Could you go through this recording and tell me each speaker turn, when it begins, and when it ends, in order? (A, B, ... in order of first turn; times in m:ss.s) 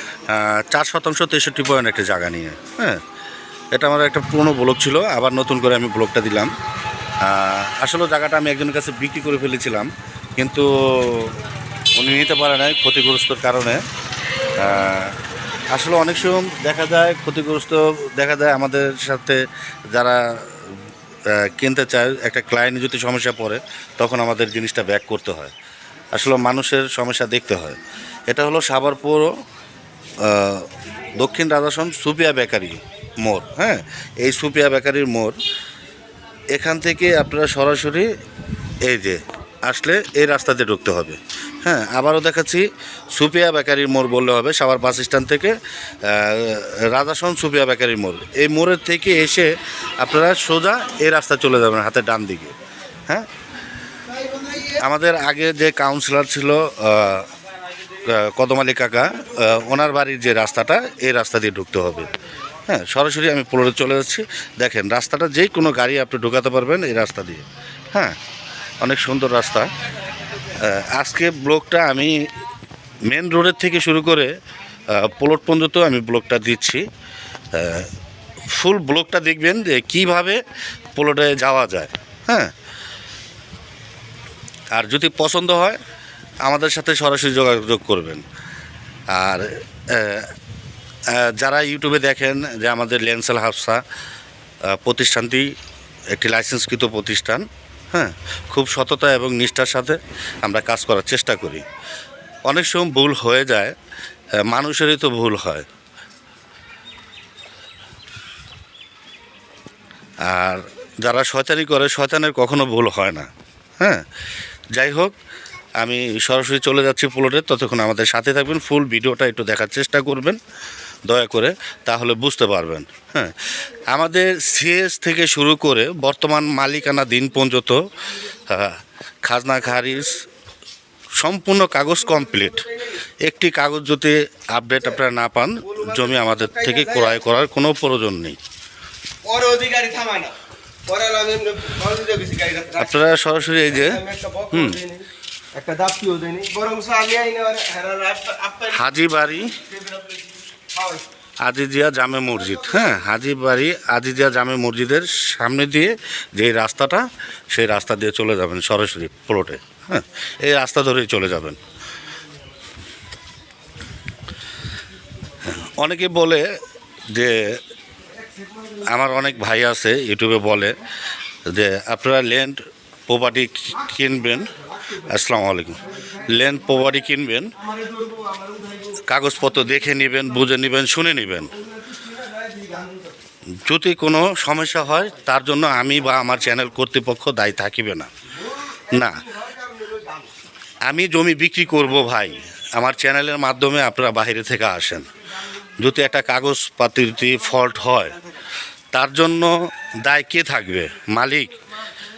0:00.3-0:03.0 A
0:03.7-0:06.5 A
0:07.2-0:11.4 A
0:12.0-0:13.8 A
0:14.6-0:15.2 A
0:15.7-0:20.7 A
0:21.3-0:25.5 A
0:26.1-0:29.3 A
0:30.2-0:35.4 A
0:36.5-0:38.1 A
0:38.8-0:52.6 A
0:54.7-0:57.3 A
0:58.0-1:02.1 A
1:02.7-1:08.2 A
1:08.8-1:09.7 A
1:10.5-1:12.2 A
1:13.1-1:14.3 A
1:14.9-1:16.8 A
1:17.5-1:17.9 A
1:18.5-1:20.4 A
1:20.9-1:22.5 A
1:24.7-1:25.8 A
1:26.4-1:28.2 A
1:29.1-1:30.3 A
1:31.1-1:33.8 A
1:34.7-1:35.5 A
1:36.1-1:41.6 A
1:42.4-1:43.7 A
1:44.4-1:45.7 A
1:50.2-1:53.3 A
1:54.7-1:55.1 A
1:55.8-2:00.4 A
2:01.1-2:10.2 A
2:11.2-2:18.4 A
2:15.7-2:17.1 B
2:19.2-2:20.4 B
2:20.9-2:22.9 B
2:22.7-2:24.8 A
2:23.8-2:28.8 B
2:28.6-2:29.6 A
2:29.6-2:31.0 B
2:31.4-2:41.6 A
2:45.4-2:46.5 A
2:47.1-2:47.6 A
2:48.8-2:50.8 A
2:51.5-2:57.5 A
2:57.9-2:58.7 B
2:59.1-3:01.5 A
3:02.1-3:03.0 B
3:03.6-3:08.1 A
3:08.8-3:09.3 A
3:09.3-3:10.3 B
3:10.8-3:15.1 A
3:15.8-3:18.2 A
3:18.9-3:21.6 A